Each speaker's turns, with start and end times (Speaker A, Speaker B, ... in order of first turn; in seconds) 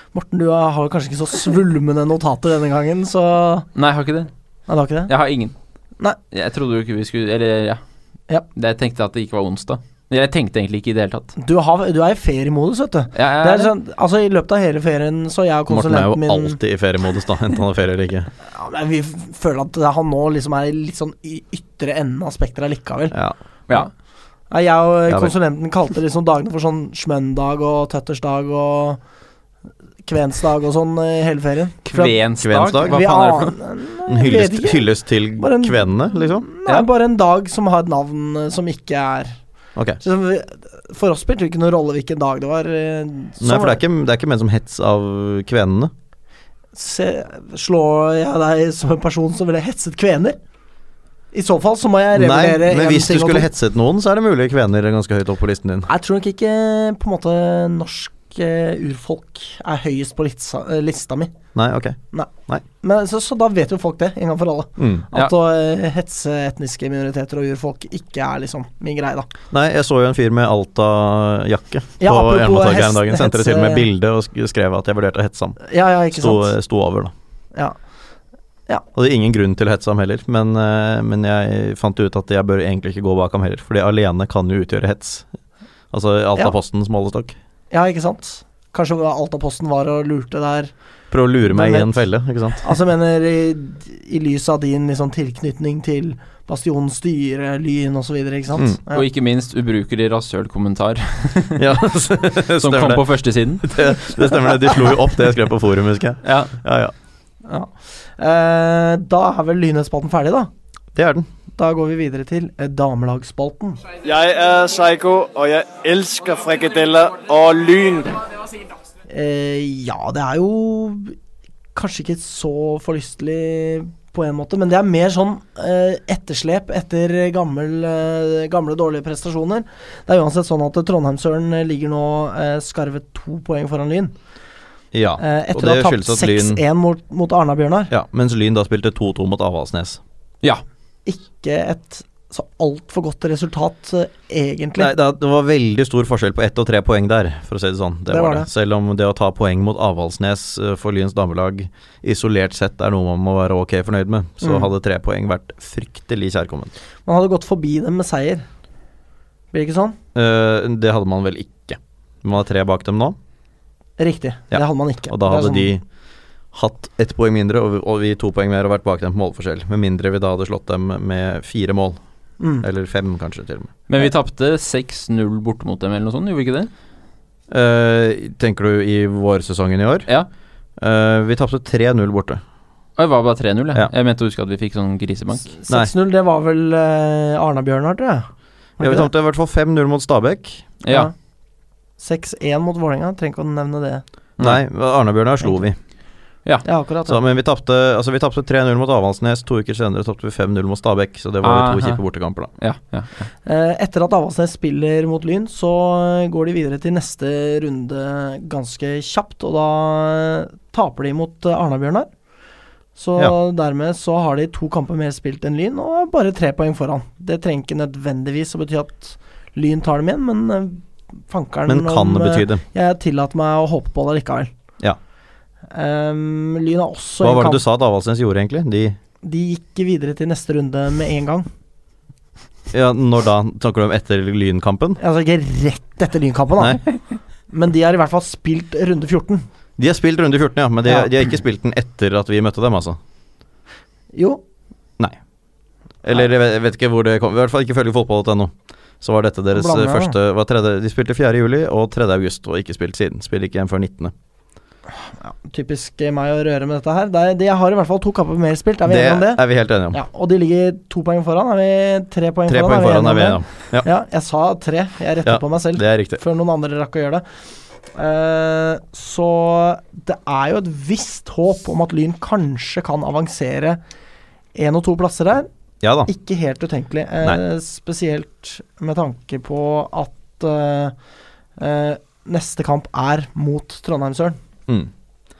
Speaker A: 0.1-3.7, 4.7-5.1, 11.4-16.6, 18.5-23.1, 24.5-29.0, 30.0-32.2, 32.8-34.9, 35.4-39.4, 40.0-43.8, 46.7-50.4, 51.3-53.5, 55.9-61.3, 62.8-69.3, 72.0-73.9, 75.6-76.5, 87.7-90.7, 91.5-91.9, 92.6-99.0, 107.5-110.5, 111.6-113.8, 119.1-121.2, 121.7-134.1, 135.2-137.9, 141.1-144.9, 148.1-148.5, 154.4-154.7, 157.1-158.4, 159.5-160.0, 164.0-165.7, 172.4-172.7, 185.5-189.1, 190.9-191.1, 192.0-194.0, 196.6-197.2, 203.4-212.1, 212.9-224.5, 225.7-227.6, 229.2-231.5, 235.0-236.8, 237.5-239.4, 244.1-244.4, 249.5-250.1, 255.0-267.2, 267.9-273.8, 274.5-275.5, 276.1-280.9, 281.6-284.4
Speaker B: 3.7-4.3, 5.1-5.5, 6.3-7.8, 8.5-11.3, 13.1-13.7, 31.9-33.5, 98.9-101.7, 102.5-103.8, 106.2-106.5, 173.9-176.7, 183.0-185.5, 190.8-191.1, 201.4-202.0, 202.6-203.3
Speaker C: 15.7-18.3, 32.4-33.0, 34.1-36.4, 43.4-45.9, 52.1-55.9, 61.5-62.6, 64.8-65.1, 69.5-75.6, 76.1-77.1, 78.9-85.3, 85.9-87.3, 91.1-92.6, 101.5-103.0, 103.6-106.9, 110.9-111.3, 134.9-136.6, 137.9-140.0, 144.8-156.7, 160.1-163.2, 164.5-165.8, 166.5-172.0, 172.6-173.7, 177.5-180.1, 180.8-182.4, 188.8-190.7, 194.4-195.8, 197.1-202.5, 221.7-222.6, 227.2-229.0, 232.7-235.0, 239.8-243.0, 246.0-254.1, 258.8-260.0, 262.5-263.9, 265.2-266.2, 275.8-276.1
Speaker D: 114.0-118.2